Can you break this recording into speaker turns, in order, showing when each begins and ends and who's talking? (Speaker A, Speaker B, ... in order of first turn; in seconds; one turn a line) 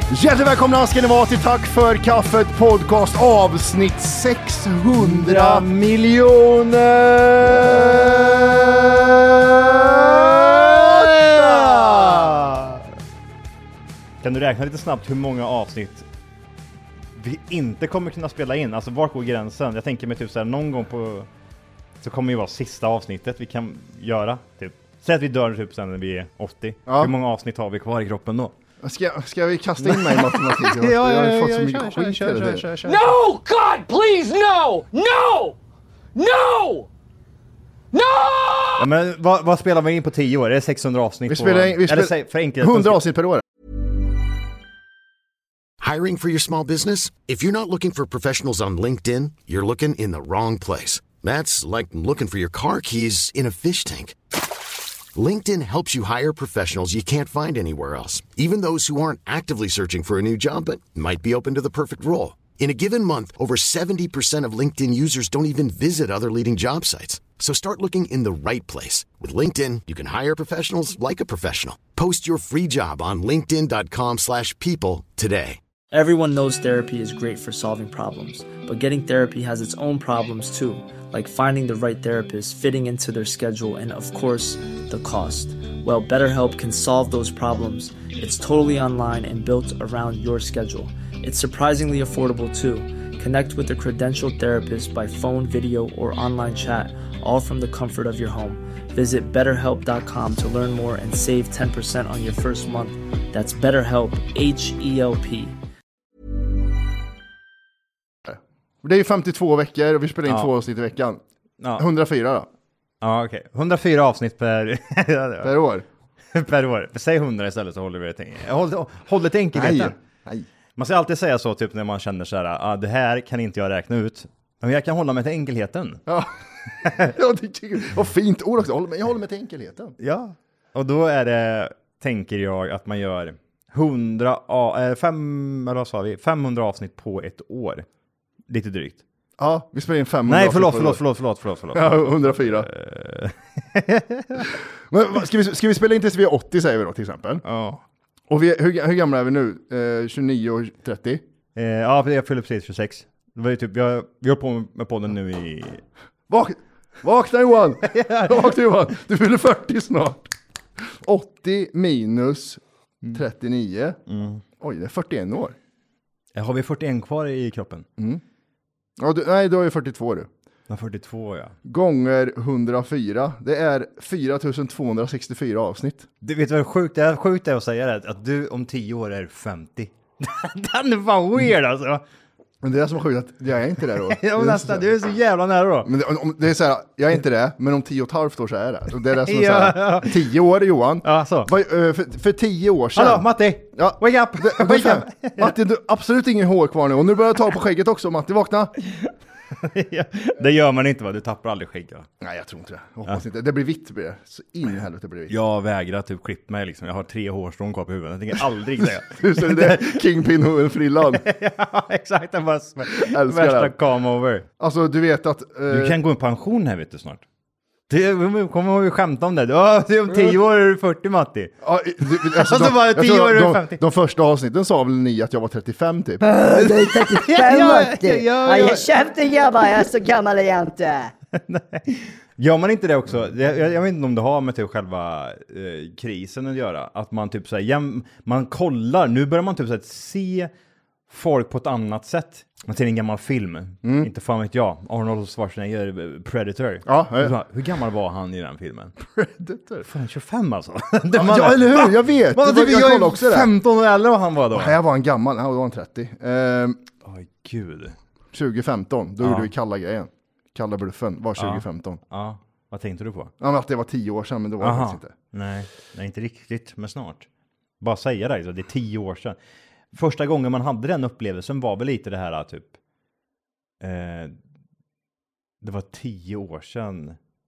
Speaker A: 0.1-5.7
Speaker B: 5.0-8.2
Speaker A: 7.4-12.6
Speaker B: 10.4-12.8
Speaker B: 14.2-16.1
Speaker B: 17.1-21.3
Speaker B: 22.0-28.5
Speaker A: 26.9-27.1
Speaker A: 28.8-33.0
Speaker B: 29.8-33.0
Speaker C: 32.9-35.5
Speaker C: 36.2-36.9
Speaker B: 38.8-43.0
Speaker A: 41.3-43.4
Speaker D: 45.8-54.2
Speaker D: 55.1-75.6
Speaker E: 75.9-105.6
Speaker A: 108.2-111.2
Speaker B: 111.6-111.9
Speaker A: 111.8-112.5
Speaker B: 113.0-115.5
Speaker A: 115.4-115.8
Speaker B: 116.3-119.9
Speaker A: 119.5-120.5
Speaker B: 120.8-126.0
Speaker A: 126.1-129.9
Speaker B: 130.0-137.9
Speaker B: 138.5-139.0
Speaker A: 139.4-141.0
Speaker B: 140.3-144.5
Speaker A: 141.7-142.7
Speaker A: 144.4-147.4
Speaker B: 147.4-147.8
Speaker A: 148.3-151.2
Speaker B: 151.5-155.8
Speaker A: 156.3-160.3
Speaker B: 157.8-158.5
Speaker A: 160.8-164.0
Speaker B: 164.1-164.4
Speaker A: 164.6-165.6
Speaker B: 166.3-167.8
Speaker A: 169.0-170.3
Speaker B: 170.7-171.5
Speaker A: 171.6-176.1
Speaker B: 176.2-182.0
Speaker A: 182.6-184.9
Speaker B: 183.9-185.9
Speaker A: 185.8-198.7
Speaker B: 189.1-190.2
Speaker B: 191.0-191.5
Speaker B: 192.9-195.5
Speaker B: 198.9-202.1
Speaker A: 202.2-205.3
Speaker B: 205.3-210.0
Speaker A: 208.8-211.2
Speaker B: 211.1-214.5
Speaker A: 212.9-213.7
Speaker A: 214.6-216.0
Speaker B: 215.7-217.2
Speaker B: 217.9-221.5
Speaker A: 221.6-226.2
Speaker B: 222.3-223.8
Speaker F: 226.2-231.1
Speaker B: 226.5-228.9
Speaker B: 231.4-240.5
Speaker B: 241.1-248.9
Speaker A: 243.8-244.1
Speaker A: 246.8-247.3
Speaker A: 249.0-249.8
Speaker B: 249.8-254.8
Speaker A: 251.1-253.5
Speaker A: 254.5-256.8
Speaker B: 257.1-257.9
Speaker A: 258.3-262.0
Speaker B: 259.2-259.5
Speaker B: 261.4-263.3
Speaker A: 263.4-265.1
Speaker B: 264.6-267.3
Speaker B: 267.8-269.4
Speaker B: 269.9-272.7
Speaker B: 273.8-274.4
Speaker B: 275.6-277.2